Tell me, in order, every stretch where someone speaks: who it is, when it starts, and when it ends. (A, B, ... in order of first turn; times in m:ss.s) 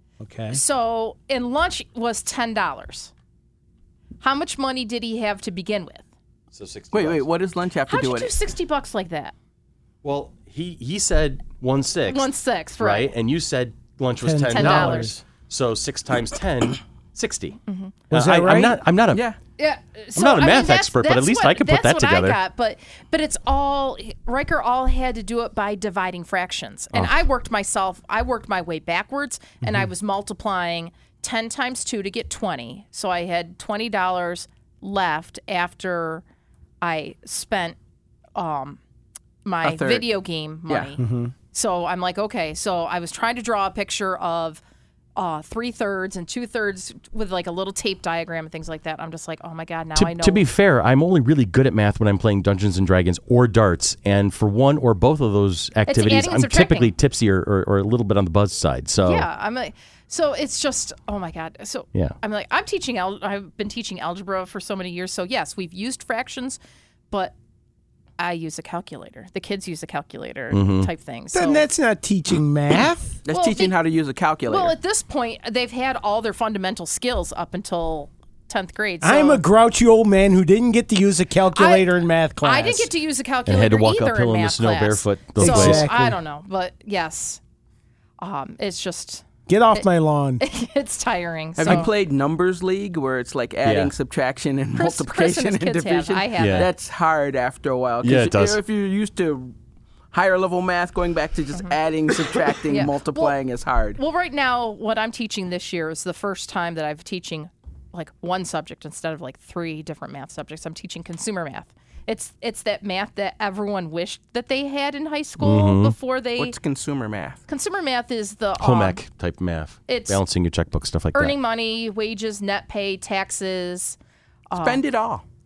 0:00.2-0:00.6 A
0:00.5-0:03.1 B
0:04.2-0:06.0 B
0:06.5-0:07.2 C
0:06.9-0:08.3 D
0:07.9-0:09.3 B
0:10.0-0:17.6 C
0:12.1-0:13.1 B
0:14.2-0:15.2 A
0:14.5-0:15.1 B
0:17.7-0:17.9 B
0:18.1-0:18.8 A
0:18.1-0:19.2 C
0:19.1-0:19.4 D
0:19.6-0:36.2 B
0:20.2-0:22.4 C
0:36.8-0:37.8 B
0:38.4-0:38.8 B
0:39.4-0:41.0 B
0:39.6-0:40.1 D
0:41.0-0:41.3 A
0:41.5-0:44.6 B
0:45.2-0:50.4 B
0:49.9-0:59.3 C
0:55.9-0:56.9 B
0:59.0-1:06.6 B
1:08.2-1:11.6 B
1:10.5-1:10.9 C
1:11.3-1:13.2 A
1:13.3-1:14.7 D
1:13.3-1:13.7 B
1:14.5-1:19.4 B
1:19.0-1:22.9 A
1:21.5-1:27.4 B
1:23.4-1:25.8 C
1:25.4-1:26.2 A
1:28.2-1:29.9 B
1:29.5-1:30.4 A
1:30.4-1:31.9 B
1:31.6-1:39.5 D
1:33.6-1:33.9 C
1:34.7-1:36.7 B
1:36.4-1:36.7 C
1:38.0-1:38.6 C
1:40.1-1:44.0 D
1:42.7-1:43.4 B
1:44.0-1:56.6 B
1:55.4-1:55.9 C
1:56.4-1:57.4 D
1:57.5-1:59.0 B
1:58.6-2:01.4 C
1:59.9-2:00.2 B
2:01.1-2:04.0 B
2:04.5-2:04.8 B
2:04.6-2:05.2 D